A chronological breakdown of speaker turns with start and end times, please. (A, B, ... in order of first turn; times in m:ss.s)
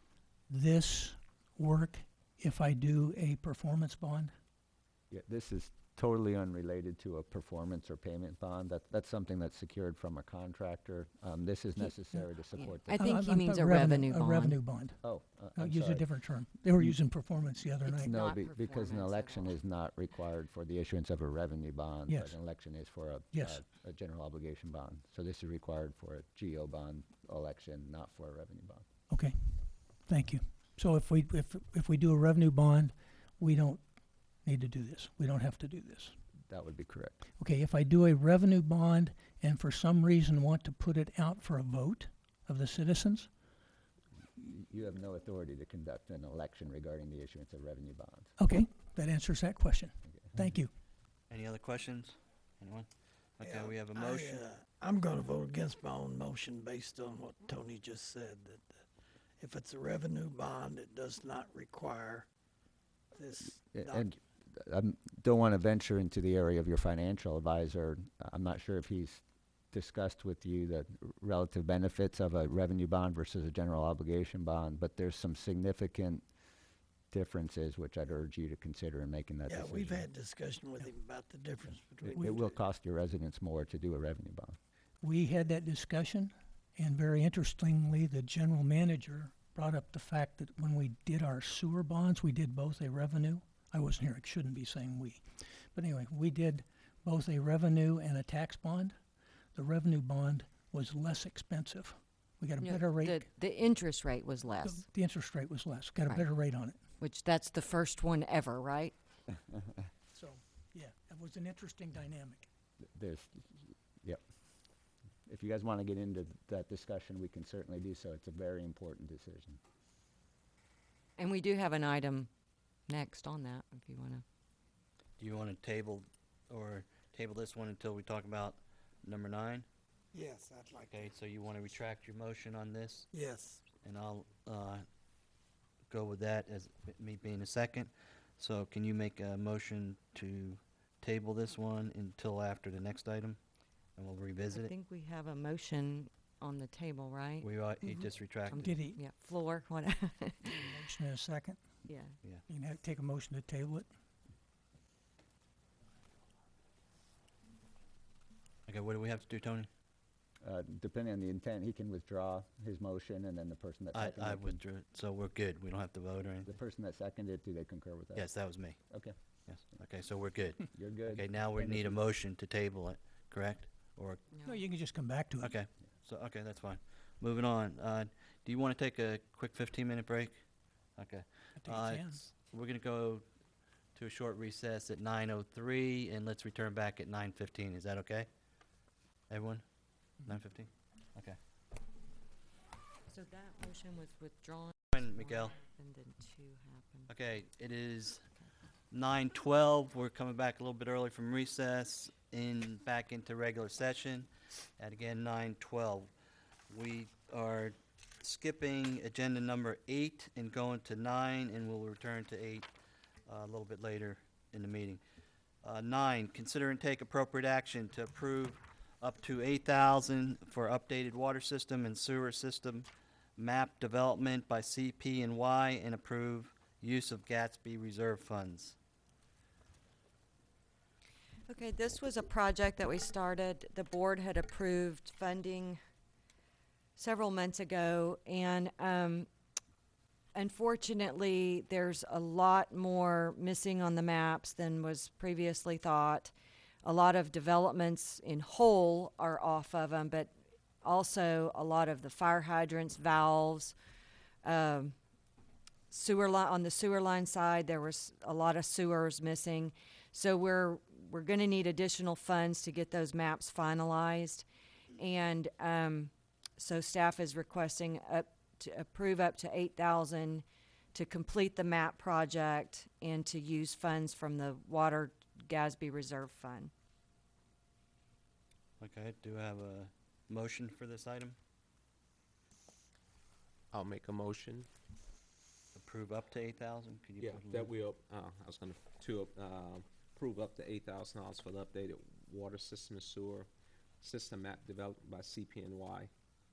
0:00.5-0:04.3 A
0:05.1-0:13.1 B
0:12.6-0:14.6 C
0:13.0-0:15.0 A
0:15.0-0:16.1 B
0:15.6-0:18.1 A
0:17.8-0:19.6 C
0:18.0-0:28.8 B
0:22.1-0:22.3 A
0:23.3-0:23.6 A
0:29.1-0:33.8 A
0:34.4-0:36.2 A
0:36.5-0:37.2 B
0:37.4-0:43.3 A
0:44.4-0:48.3 B
0:48.4-0:50.7 A
0:51.3-0:52.9 D
0:53.4-0:54.4 D
0:53.4-0:58.9 E
0:59.4-1:02.3 E
1:03.1-1:04.2 E
1:03.5-1:16.2 B
1:17.1-1:20.1 B
1:19.5-1:22.5 E
1:22.1-1:22.4 A
1:22.2-1:24.6 B
1:25.0-1:39.0 A
1:39.5-1:43.3 A
1:42.6-1:44.9 C
1:44.6-1:46.8 A
1:47.0-1:49.0 C
1:50.1-1:52.5 A
1:52.9-1:54.2 B
1:55.3-1:59.6 B
2:01.2-2:02.3 C
2:02.9-2:04.2 C
2:05.2-2:09.7 D
2:10.1-2:11.1 E
2:10.9-2:13.1 D
2:13.1-2:13.6 E
2:13.8-2:14.8 D
2:15.9-2:23.4 D
2:24.0-2:24.7 D
2:24.5-2:27.5 C
2:27.4-2:28.8 D
2:28.0-2:29.0 A
2:28.5-2:30.6 C
2:30.4-2:31.6 A
2:31.9-2:32.2 C
2:32.5-2:33.9 A
2:38.7-2:39.7 D
2:40.4-2:44.6 B
2:43.9-2:46.5 D
2:46.4-2:48.3 B
2:48.2-2:48.8 D
2:48.9-2:49.2 B
2:49.5-2:54.2 D
2:50.7-2:52.0 B
2:54.3-2:54.6 C
2:54.4-2:55.6 A
2:55.4-3:00.4 D
3:01.0-3:03.2 D
3:01.6-3:02.2 A
3:04.0-3:08.3 D
3:09.3-3:09.6 D
3:10.2-3:11.4 D
3:13.1-3:17.1 C
3:14.9-3:15.6 D
3:17.1-3:18.2 D
3:18.9-3:26.1 D
3:26.7-3:32.7 D
3:33.3-3:35.0 D
3:35.6-3:48.8 D
3:51.5-3:55.8 C
3:57.0-3:59.3 C
4:00.4-4:06.3 C
4:06.8-4:13.7 C
4:14.4-4:14.9 C
4:15.9-4:24.4 C
4:25.0-4:36.7 C
4:38.8-4:41.4 D
4:43.7-4:44.7 F
4:45.8-4:47.7 D
4:47.2-4:53.5 F
4:54.0-4:56.1 F